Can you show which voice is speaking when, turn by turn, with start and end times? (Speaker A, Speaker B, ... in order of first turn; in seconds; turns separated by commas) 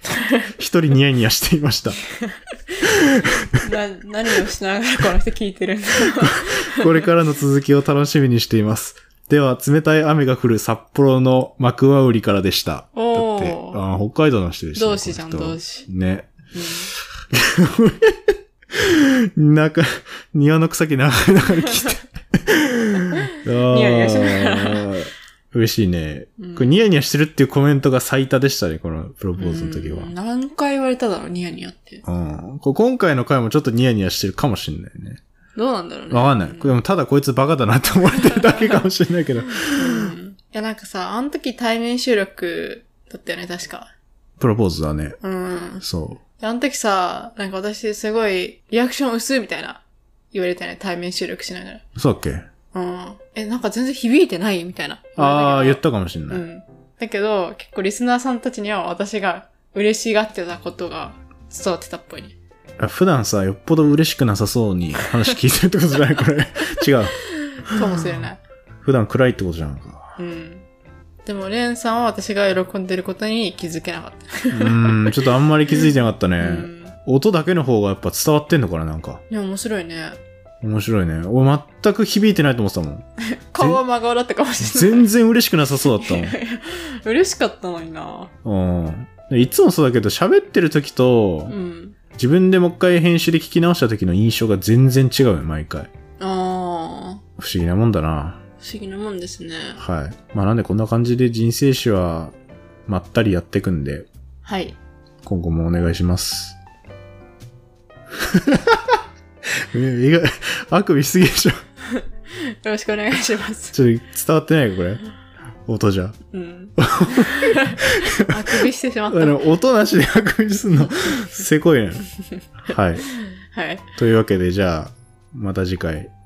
Speaker A: 0.5-2.0, Speaker A: 2.8-3.6, Speaker B: 3.5-7.1, Speaker A: 6.3-16.3, Speaker B: 12.9-13.8, Speaker B: 14.8-15.9, Speaker B: 16.5-16.9, Speaker A: 17.3-30.1, Speaker B: 23.1-25.0, Speaker B: 26.4-26.8, Speaker B: 29.4-32.0, Speaker A: 32.1-35.2, Speaker B: 35.6-36.8, Speaker A: 36.1-40.1, Speaker B: 38.2-38.9, Speaker B: 39.6-43.9, Speaker A: 44.4-45.2, Speaker B: 45.2-45.9, Speaker A: 45.8-46.2, Speaker B: 46.4-51.8, Speaker A: 52.0-52.5, Speaker B: 52.7-62.4, Speaker A: 55.2-56.4, Speaker A: 62.8-68.0, Speaker B: 67.4-68.4, Speaker A: 68.8-70.1, Speaker B: 70.2-70.7, Speaker B: 71.3-75.2, Speaker A: 74.5-79.2, Speaker B: 76.4-77.0, Speaker B: 79.3-80.2, Speaker A: 80.6-83.1, Speaker B: 83.3-85.1, Speaker A: 84.6-86.4, Speaker B: 85.9-88.3, Speaker A: 88.5-91.5, Speaker B: 91.5-92.0, Speaker A: 92.1-95.9, Speaker B: 96.2-97.2, Speaker A: 97.4-98.4, Speaker B: 98.6-99.8, Speaker A: 99.8-102.3, Speaker A: 102.9-104.1, Speaker B: 104.5-104.8, Speaker A: 105.2-106.6, Speaker A: 108.1-109.0, Speaker A: 109.6-111.6, Speaker B: 111.9-113.8, Speaker A: 113.7-115.0, Speaker A: 115.7-116.2, Speaker B: 116.3-119.4, Speaker A: 116.8-122.1, Speaker A: 122.7-123.1, Speaker B: 123.2-123.8, Speaker A: 124.0-126.1